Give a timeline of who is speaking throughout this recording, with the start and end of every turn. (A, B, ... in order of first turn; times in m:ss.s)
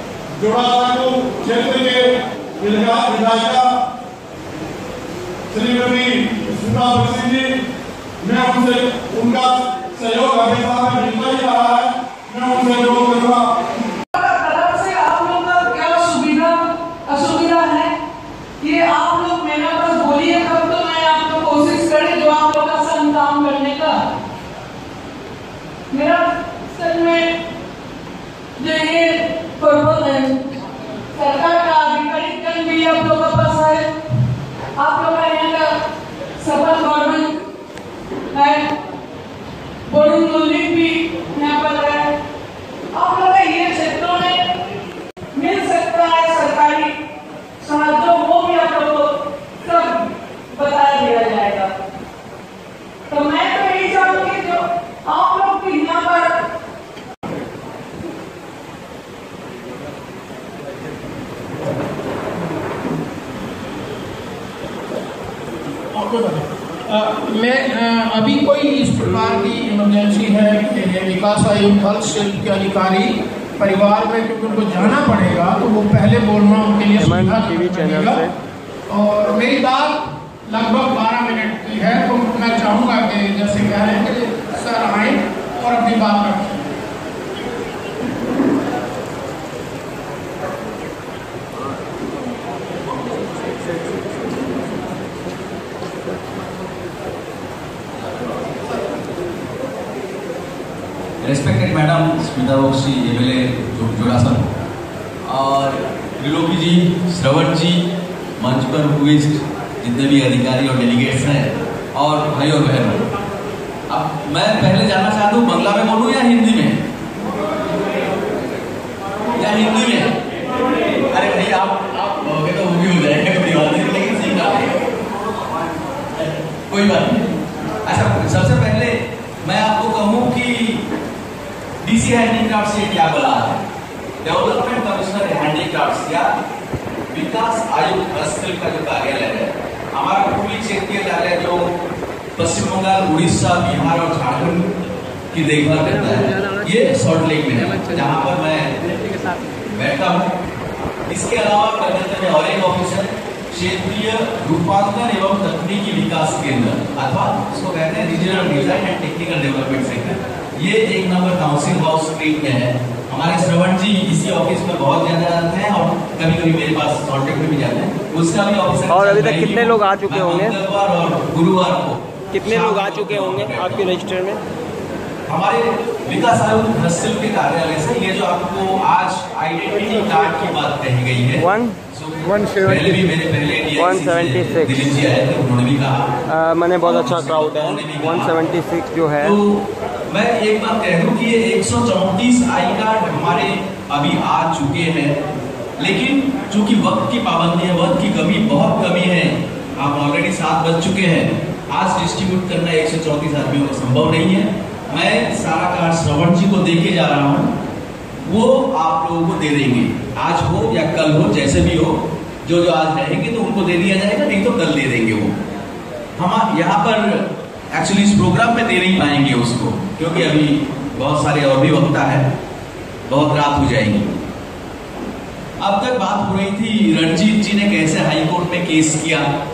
0:00.4-0:03.7 A
0:05.5-0:07.6 A
0:08.2-0:13.5 A
0:14.1-0:17.9 B
0:18.6-0:24.0 B
0:25.9-0:27.4 B
0:28.6-0:30.4 B
0:31.1-0:33.9 B
0:34.8-0:35.7 B
0:36.4-0:37.4 B
0:38.3-0:38.7 B
0:39.9-0:42.1 B
0:42.9-0:44.5 B
0:45.3-0:47.0 B
0:47.6-0:51.7 B
0:53.1-0:56.4 B
1:05.9-1:18.2 C
1:17.0-1:18.3 D
1:18.9-1:26.5 C
1:41.2-1:44.5 E
1:45.2-1:53.1 E
1:53.9-1:56.8 E
1:59.4-2:00.2 E
2:01.0-2:04.9 E
2:06.2-2:07.3 E
2:07.8-2:10.9 E
2:11.8-2:13.6 E
2:14.2-2:16.3 E
2:17.1-2:21.8 E
2:22.4-2:24.7 E
2:25.3-2:28.8 E
2:29.6-2:30.3 E
2:31.1-2:54.1 E
2:48.9-2:50.5 D
2:52.3-2:54.4 D
2:55.3-3:06.2 E
3:01.4-3:01.8 D
3:02.3-3:02.7 D
3:03.8-3:04.8 D
3:06.3-3:09.3 D
3:06.8-3:08.6 E
3:09.2-3:15.2 E
3:15.8-3:27.6 E
3:28.2-3:35.4 E
3:36.2-3:42.3 E
3:43.1-3:44.1 E
3:45.6-3:49.3 E